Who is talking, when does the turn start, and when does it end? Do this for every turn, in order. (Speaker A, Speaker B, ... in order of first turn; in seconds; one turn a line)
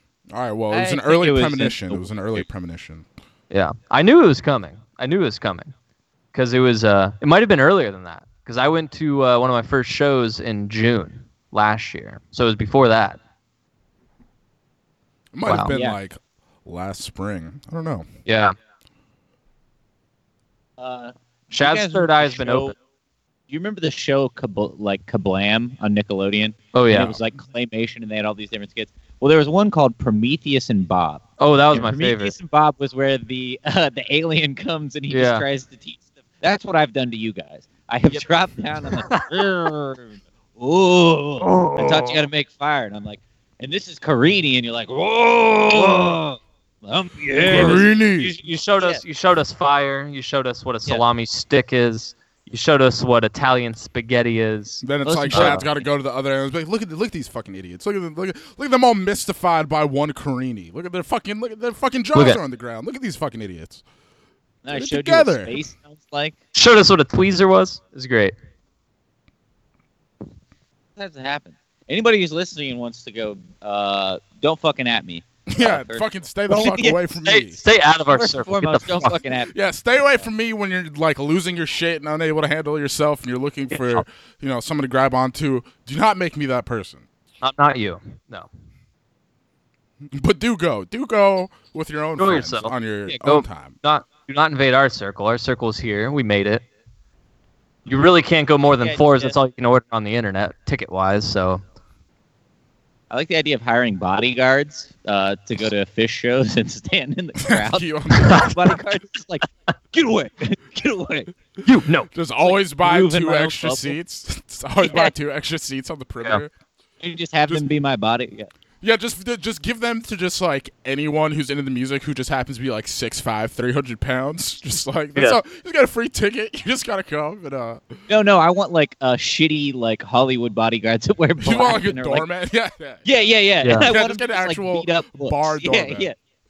Speaker A: 0.3-3.1
Speaker B: 0.7-2.4
Speaker C: 3.5-5.7
Speaker C: 6.3-13.2
Speaker A: 15.3-18.1
Speaker C: 15.5-15.7
Speaker B: 15.7-16.0
Speaker C: 18.3-18.6
Speaker B: 20.8-22.8
Speaker C: 21.5-22.8
Speaker B: 23.5-47.9
Speaker C: 26.7-27.2
Speaker C: 31.4-32.4
Speaker C: 35.1-35.5
Speaker C: 38.8-39.4
Speaker C: 41.4-42.2
Speaker C: 47.4-55.7
Speaker A: 47.5-48.4
Speaker A: 54.8-63.8
Speaker B: 55.0-55.6
Speaker C: 62.1-62.4
Speaker B: 64.7-66.4
Speaker A: 64.7-65.6
Speaker C: 66.5-68.4
Speaker B: 71.0-77.0
Speaker A: 75.5-77.6
Speaker C: 77.2-79.2
Speaker B: 78.1-80.2
Speaker A: 79.5-87.0
Speaker C: 83.7-84.0
Speaker C: 87.4-88.5
Speaker A: 90.1-93.8
Speaker C: 92.2-96.7
Speaker C: 97.9-101.6
Speaker B: 98.8-99.3
Speaker B: 103.1-111.3
Speaker A: 107.4-108.6
Speaker C: 108.2-108.5
Speaker C: 111.6-112.1
Speaker A: 112.1-116.5
Speaker B: 112.4-114.0
Speaker B: 114.8-115.1
Speaker B: 117.0-118.5
Speaker A: 118.8-127.9
Speaker B: 128.1-132.3
Speaker A: 131.4-133.1
Speaker B: 133.1-136.2
Speaker C: 133.6-133.9
Speaker A: 133.7-136.1